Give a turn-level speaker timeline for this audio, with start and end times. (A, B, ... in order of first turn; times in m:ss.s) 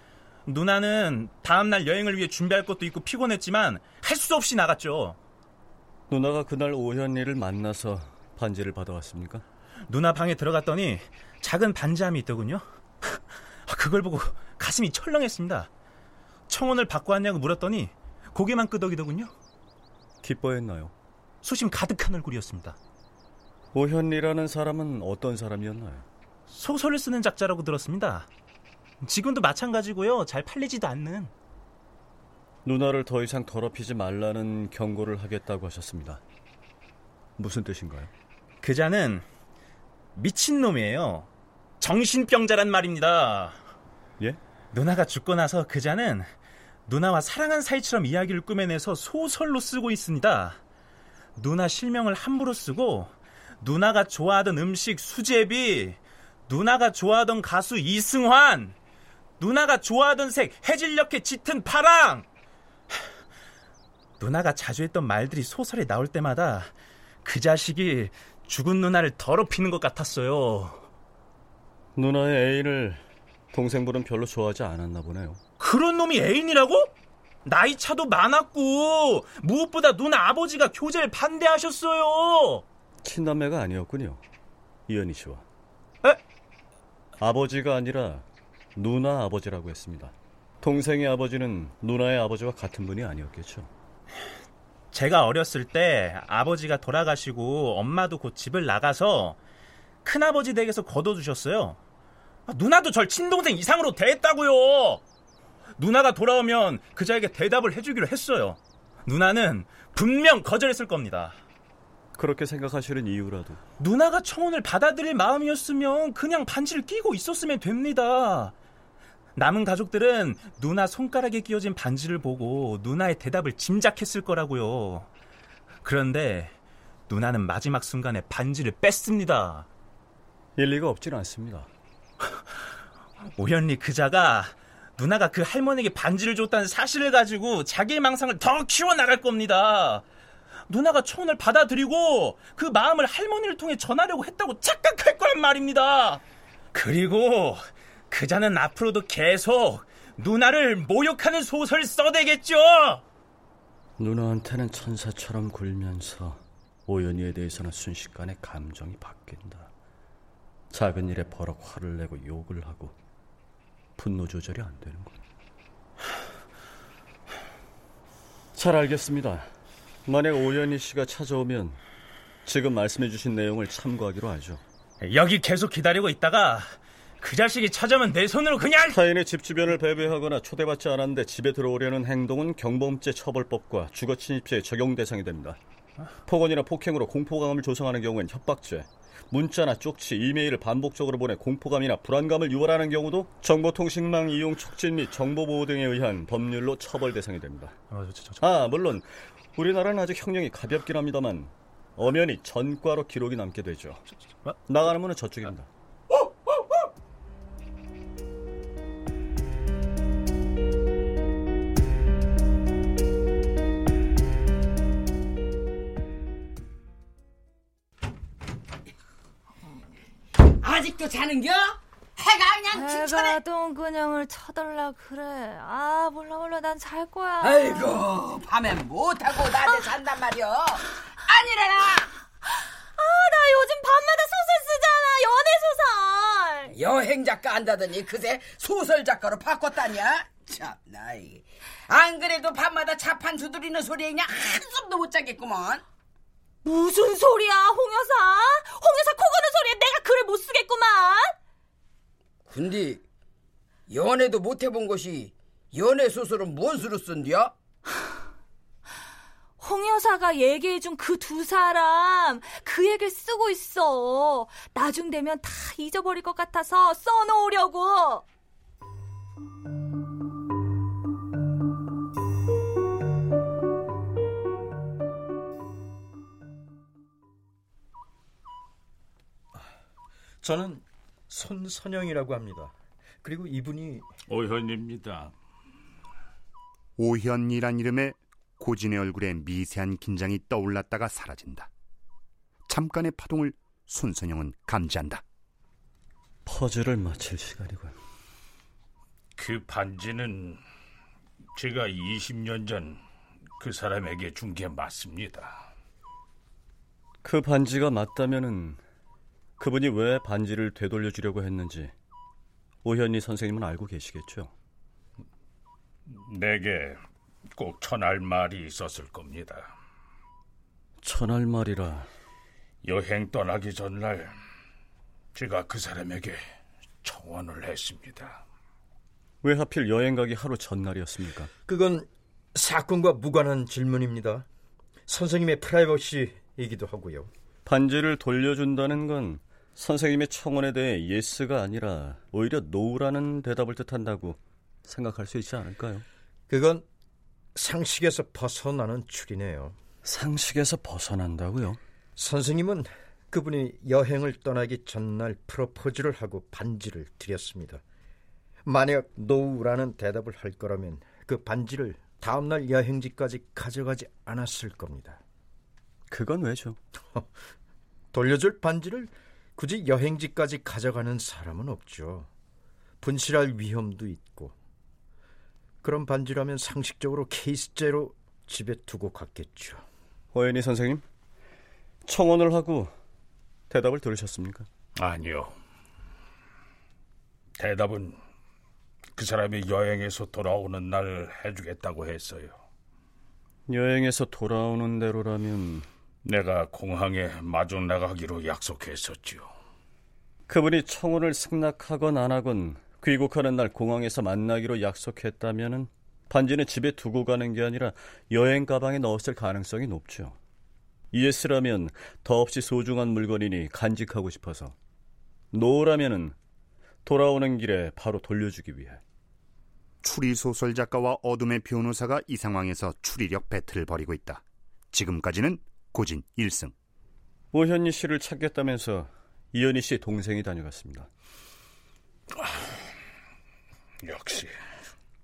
0:00.5-0:05.2 A
0:06.1-0:09.4 B
0:09.9-0:15.7 A
0:16.5-0:19.3 A
0:20.2-0:20.9 B
0:21.4-0:22.8 A
0:23.7-0:26.1 B
0:26.5-0:28.3 A
0:29.0-0:31.3 A
0:32.6-0:36.2 B
0:37.4-0:38.1 B
0:38.6-0:39.3 A
0:40.2-0:41.3 A
0:41.8-0:43.6 A
0:44.7-0:46.3 A
0:46.9-0:50.6 A
0:51.4-0:58.8 A
0:59.4-1:02.3 A
1:04.2-1:06.7 A
1:07.2-1:10.9 A
1:12.0-1:15.4 B
1:15.6-1:16.9 A
1:17.4-1:22.6 A
1:23.0-1:24.2 B
1:24.9-1:25.4 B
1:27.2-1:28.2 B
1:28.8-1:33.7 B
1:34.9-1:39.4 A
1:40.0-1:41.8 A
1:42.5-1:45.0 A
1:45.8-1:51.4 A
1:52.2-1:53.6 B
1:53.8-1:58.5 A
1:59.4-2:05.1 A
2:05.8-2:06.6 A
2:07.1-2:09.7 A
2:10.6-2:11.7 B
2:13.2-2:20.0 A
2:20.7-2:26.2 A
2:26.7-2:33.0 A
2:34.0-2:39.7 B
2:40.7-2:43.0 B
2:44.0-2:45.2 B
2:48.6-2:49.5 B
2:50.1-2:51.8 B
2:52.4-2:54.6 B
2:55.0-2:59.0 A
2:58.9-3:05.6 B
3:06.2-3:17.8 B
3:17.9-3:18.4 A
3:18.4-3:24.0 B
3:24.7-3:25.7 B
3:40.5-3:43.3 C
3:42.7-3:48.0 D
3:47.4-3:52.1 C
3:53.0-3:56.8 D
3:56.7-4:05.8 C
4:06.6-4:11.3 D
4:12.5-4:13.0 C
4:13.9-4:17.5 C
4:19.6-4:28.2 D
4:40.4-4:44.1 E
4:44.3-4:45.3 F
4:47.0-4:51.7 G
4:52.7-4:55.2 G
4:56.5-4:57.9 B
4:59.4-5:00.6 F
5:01.6-5:03.0 F
5:03.6-5:05.6 F
5:07.2-5:08.8 B
5:09.6-5:11.9 B
5:12.8-5:14.5 B
5:16.1-5:17.0 F
5:17.6-5:19.7 F
5:21.0-5:22.1 B
5:22.8-5:24.3 F
5:25.3-5:26.4 F
5:27.0-5:28.4 F
5:29.4-5:31.5 B
5:31.7-5:34.5 E
5:35.1-5:37.3 E
5:37.6-5:46.0 B
5:46.5-5:46.8 E
5:47.6-5:49.8 E
5:50.0-5:51.8 B
5:52.2-5:57.8 E
5:58.7-6:05.2 E
6:06.1-6:06.8 B
6:08.1-6:12.3 E
6:13.0-6:14.6 E
6:15.8-6:19.8 E
6:20.3-6:21.0 B
6:22.0-6:22.9 B
6:23.7-6:24.7 B
6:25.0-6:25.6 F
6:27.6-6:28.2 F
6:29.2-6:32.6 F
6:33.7-6:35.9 B
6:36.2-6:39.5 F
6:40.5-6:50.4 B
6:51.1-6:54.8 B
6:55.5-6:56.4 B
6:57.0-6:59.0 B
7:00.0-7:06.7 G
7:07.5-7:11.1 B
7:14.0-7:14.5 F